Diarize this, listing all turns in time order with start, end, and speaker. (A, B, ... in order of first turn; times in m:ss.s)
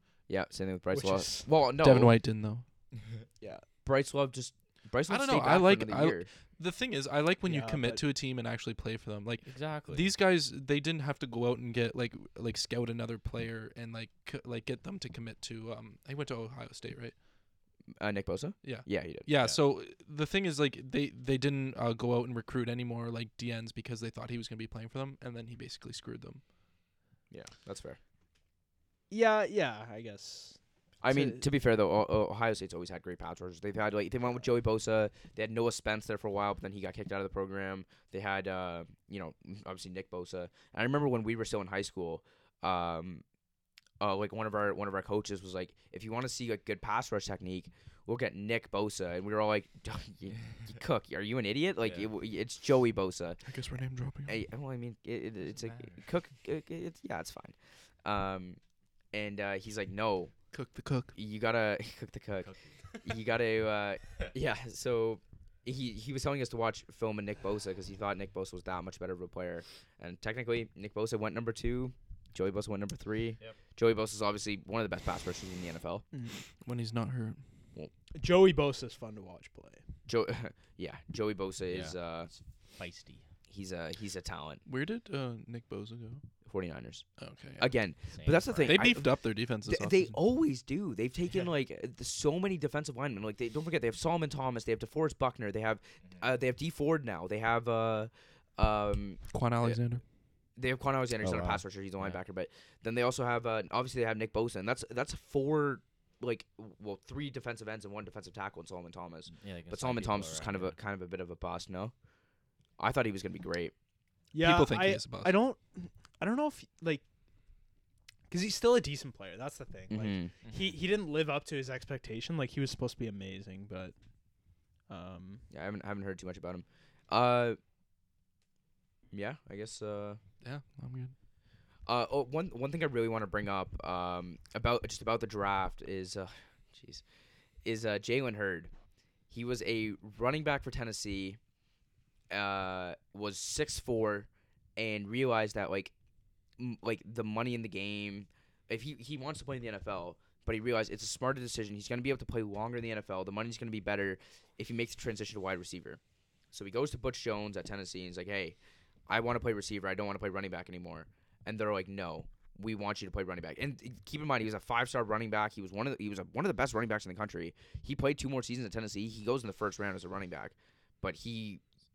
0:00.3-0:02.2 A
0:00.9-0:01.5 B
0:01.8-0:02.6 C
0:03.8-0:06.3 A
0:05.1-0:17.1 C
0:07.4-0:08.0 B
0:09.4-0:10.1 D
0:18.0-0:19.3 A
0:18.6-0:26.4 C
0:27.3-0:28.0 A
0:29.1-0:31.4 B
0:31.0-0:43.2 A
0:44.0-0:53.4 A
0:51.8-0:52.1 D
0:53.4-0:54.4 C
0:54.3-0:58.6 A
0:55.4-0:56.1 D
0:59.1-1:00.3 A
1:00.5-1:01.1 C
1:01.1-1:02.5 A
1:02.4-1:02.8 D
1:03.0-1:16.0 A
1:16.1-1:16.4 B
1:16.6-1:17.4 C
1:18.1-1:19.8 B
1:20.1-1:22.3 A
1:21.7-1:23.2 D
1:23.5-1:24.6 A
1:24.6-1:26.2 C
1:26.4-1:27.0 A
1:27.2-1:27.6 C
1:27.6-1:29.1 A
1:28.1-1:28.8 D
1:28.6-1:30.2 C
1:29.7-1:39.8 A
1:39.3-1:40.0 C
1:40.6-1:51.9 A
1:41.2-1:42.2 D
1:49.3-1:50.8 D
1:52.8-1:53.7 A
1:54.3-1:57.0 B
1:54.4-1:55.3 C
1:58.3-2:03.9 B
1:59.9-2:00.3 A
2:00.4-2:00.8 D
2:04.9-2:05.4 B
2:05.5-2:07.6 A
2:09.1-2:10.2 A
2:10.4-2:11.1 C
2:11.8-2:17.0 A
2:17.6-2:18.7 A
2:19.3-2:21.4 A
2:22.3-2:25.9 A
2:26.6-2:36.0 A
2:36.5-2:38.6 A
2:39.1-2:51.6 A